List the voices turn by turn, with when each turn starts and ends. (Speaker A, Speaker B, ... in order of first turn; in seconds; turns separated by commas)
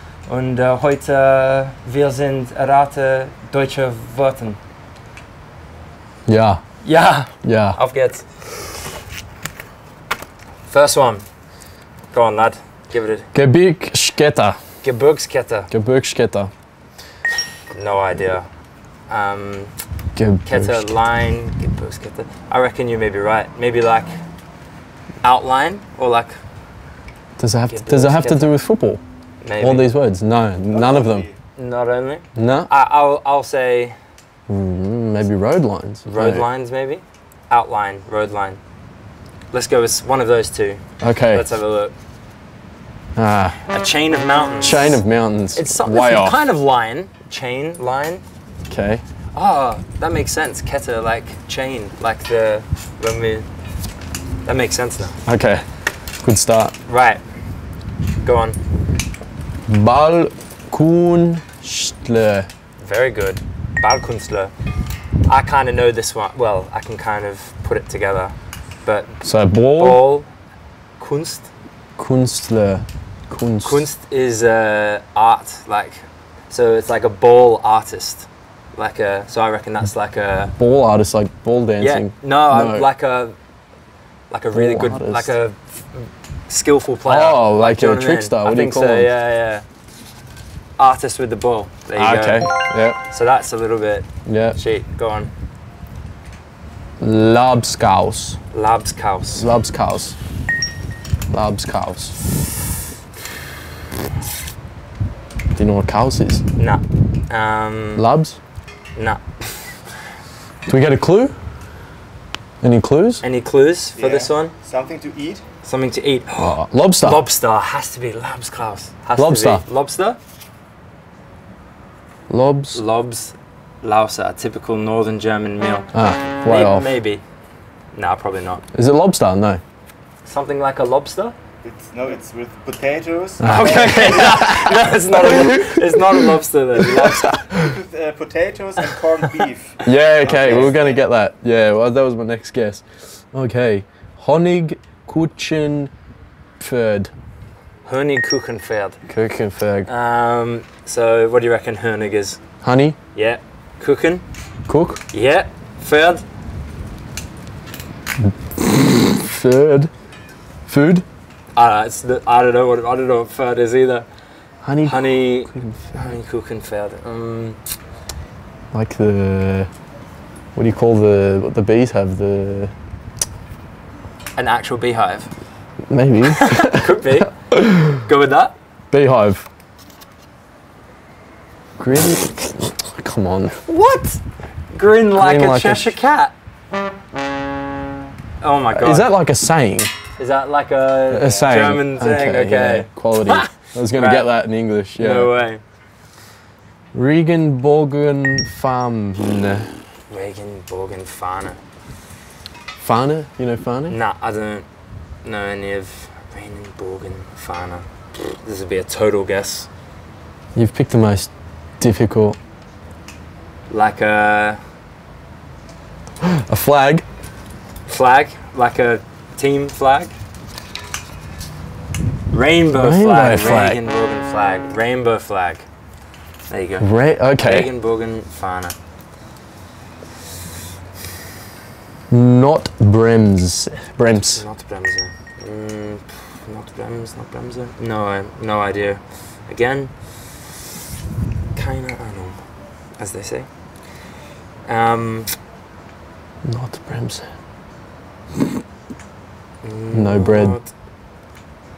Speaker A: 0.3-4.6, Speaker B: 6.3-6.6, Speaker A: 6.8-8.7, Speaker B: 7.4-7.8, Speaker A: 10.7-11.2, Speaker A: 12.1-13.3, Speaker B: 13.3-14.6, Speaker A: 14.8-15.7, Speaker B: 15.7-16.5, Speaker A: 17.7-18.5, Speaker A: 19.1-19.7, Speaker B: 20.1-20.9, Speaker A: 20.4-24.2, Speaker A: 25.2-26.4, Speaker B: 27.4-29.0, Speaker A: 27.7-28.6, Speaker A: 29.4-29.9, Speaker B: 29.6-31.3, Speaker C: 30.7-31.4, Speaker A: 31.6-34.0, Speaker B: 32.4-32.7, Speaker B: 34.5-36.5, Speaker A: 36.0-38.6, Speaker A: 39.5-42.0, Speaker B: 41.0-41.5, Speaker B: 43.2-43.6, Speaker A: 43.7-45.0, Speaker B: 44.6-46.4, Speaker A: 45.5-48.2, Speaker B: 48.7-49.0, Speaker A: 49.3-53.5, Speaker A: 54.5-55.2, Speaker B: 55.3-55.6, Speaker B: 56.2-56.8, Speaker A: 56.9-57.2, Speaker A: 58.2-58.6, Speaker B: 59.7-62.5, Speaker A: 62.8-64.5, Speaker A: 65.3-68.3, Speaker A: 68.8-69.2, Speaker B: 69.2-70.0, Speaker A: 69.8-70.3, Speaker A: 71.0-71.5, Speaker B: 72.0-73.9, Speaker A: 73.6-80.5, Speaker B: 80.6-82.9, Speaker A: 81.8-83.4, Speaker A: 84.3-89.7, Speaker B: 84.5-85.3, Speaker B: 87.1-89.1, Speaker A: 90.8-92.5, Speaker B: 92.0-93.0, Speaker A: 93.0-95.3, Speaker B: 94.3-94.6, Speaker B: 97.0-98.4, Speaker A: 98.5-99.5, Speaker B: 99.3-100.2, Speaker B: 101.3-102.2, Speaker B: 105.5-106.4, Speaker A: 106.6-108.0, Speaker B: 108.0-108.4, Speaker A: 109.0-109.8, Speaker B: 110.7-111.3, Speaker B: 112.6-113.2, Speaker A: 113.2-114.5, Speaker C: 114.0-115.4, Speaker A: 115.6-120.2, Speaker B: 116.4-117.2, Speaker B: 119.2-119.6, Speaker B: 122.3-122.8, Speaker A: 122.7-125.9, Speaker B: 125.9-126.9, Speaker A: 126.4-127.2, Speaker A: 127.9-128.6, Speaker B: 128.7-129.6, Speaker A: 130.2-131.3, Speaker C: 131.6-134.3, Speaker B: 133.4-137.8, Speaker A: 133.4-137.4, Speaker C: 137.5-141.0, Speaker B: 139.8-145.9, Speaker A: 140.2-140.7, Speaker B: 146.6-147.1, Speaker A: 147.8-149.0, Speaker B: 149.1-149.9, Speaker A: 149.9-152.4, Speaker B: 152.6-153.0, Speaker A: 153.1-154.2, Speaker B: 154.7-155.0, Speaker A: 155.1-156.2, Speaker B: 158.2-159.9, Speaker B: 160.7-161.1, Speaker A: 161.6-164.1, Speaker B: 164.6-166.2, Speaker A: 164.8-167.6, Speaker B: 168.7-169.7, Speaker B: 170.6-172.7, Speaker A: 174.4-175.3, Speaker B: 175.9-178.0, Speaker A: 176.3-178.6, Speaker B: 178.9-179.4, Speaker B: 181.8-183.6, Speaker A: 183.7-184.2, Speaker A: 184.7-186.3, Speaker B: 185.1-185.9, Speaker A: 188.4-189.1, Speaker B: 188.7-189.9, Speaker A: 190.2-194.3, Speaker B: 191.1-195.3, Speaker A: 195.0-195.6, Speaker B: 196.9-199.8, Speaker A: 200.1-201.6, Speaker B: 202.8-204.0, Speaker A: 203.9-204.7, Speaker A: 205.2-209.7, Speaker B: 210.6-212.4, Speaker A: 213.7-214.6, Speaker B: 216.2-217.1, Speaker A: 217.9-220.2, Speaker A: 222.3-225.7, Speaker B: 222.7-223.8, Speaker A: 226.5-228.8, Speaker B: 226.8-227.7, Speaker B: 232.1-234.4, Speaker A: 234.1-240.5, Speaker A: 241.5-242.4, Speaker A: 243.0-243.5, Speaker A: 244.7-245.4, Speaker B: 246.4-247.3, Speaker A: 249.6-250.7, Speaker B: 249.9-250.6